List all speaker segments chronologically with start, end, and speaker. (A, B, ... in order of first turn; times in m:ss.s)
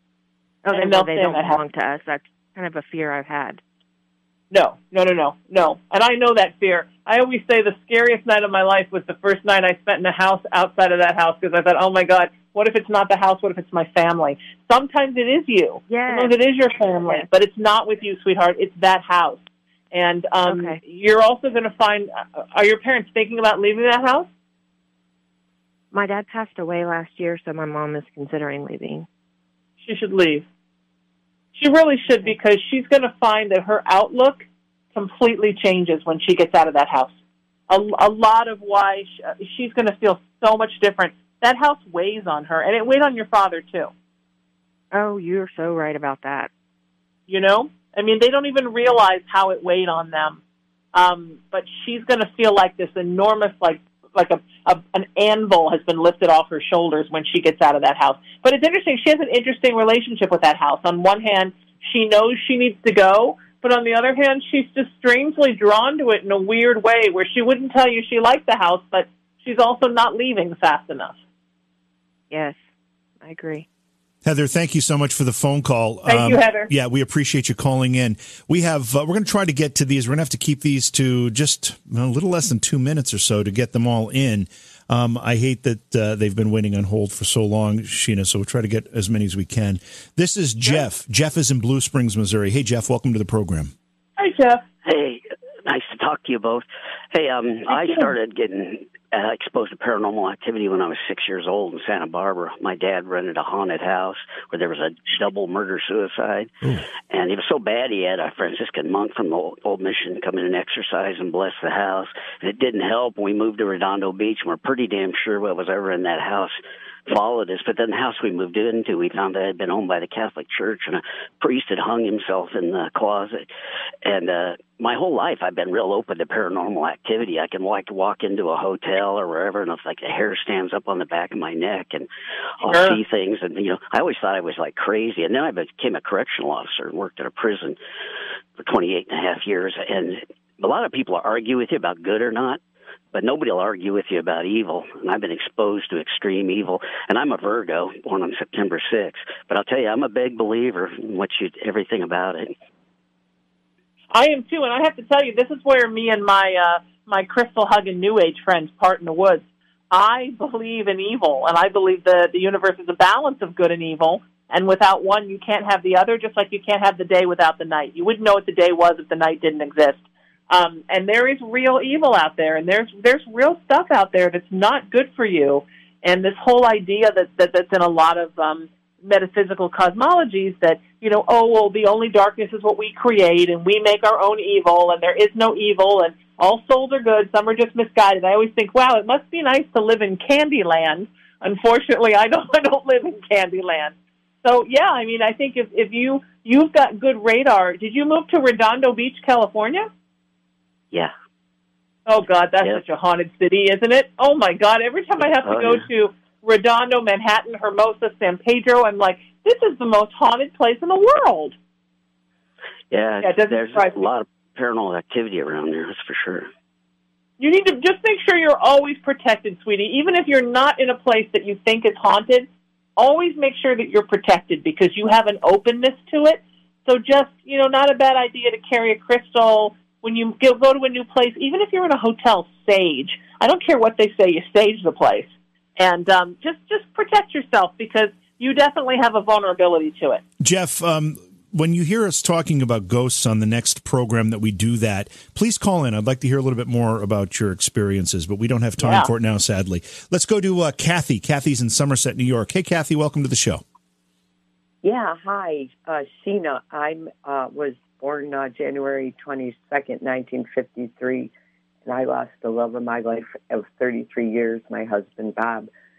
0:00.6-0:03.6 A
0:00.7-0:01.6 B
0:04.5-0:24.3 B
0:15.9-0:16.4 A
0:20.4-0:20.8 A
0:25.9-0:29.1 A
0:29.8-0:30.4 B
0:31.5-0:37.1 B
0:32.1-0:32.3 A
0:37.7-0:43.9 B
0:44.9-0:46.5 A
0:47.3-0:50.4 B
0:50.9-1:11.2 B
1:12.3-1:12.6 A
1:13.2-1:13.6 A
1:14.2-1:33.7 C
1:16.0-1:16.7 B
1:34.2-1:34.6 B
1:34.8-1:46.5 D
1:37.7-1:38.1 B
1:47.1-1:56.6 D
1:57.1-2:03.4 D
2:04.0-2:12.1 D
2:12.6-2:17.8 D
2:12.7-2:13.0 B
2:18.6-2:22.6 D
2:23.1-2:32.5 D
2:34.1-3:19.9 B
3:22.1-3:31.6 B
3:25.3-3:25.8 D
3:32.9-3:36.5 D
3:33.2-3:34.0 B
3:37.4-4:00.2 B
4:00.4-4:13.6 C
4:08.8-4:09.1 B
4:14.8-4:21.3 E
4:21.8-4:25.7 E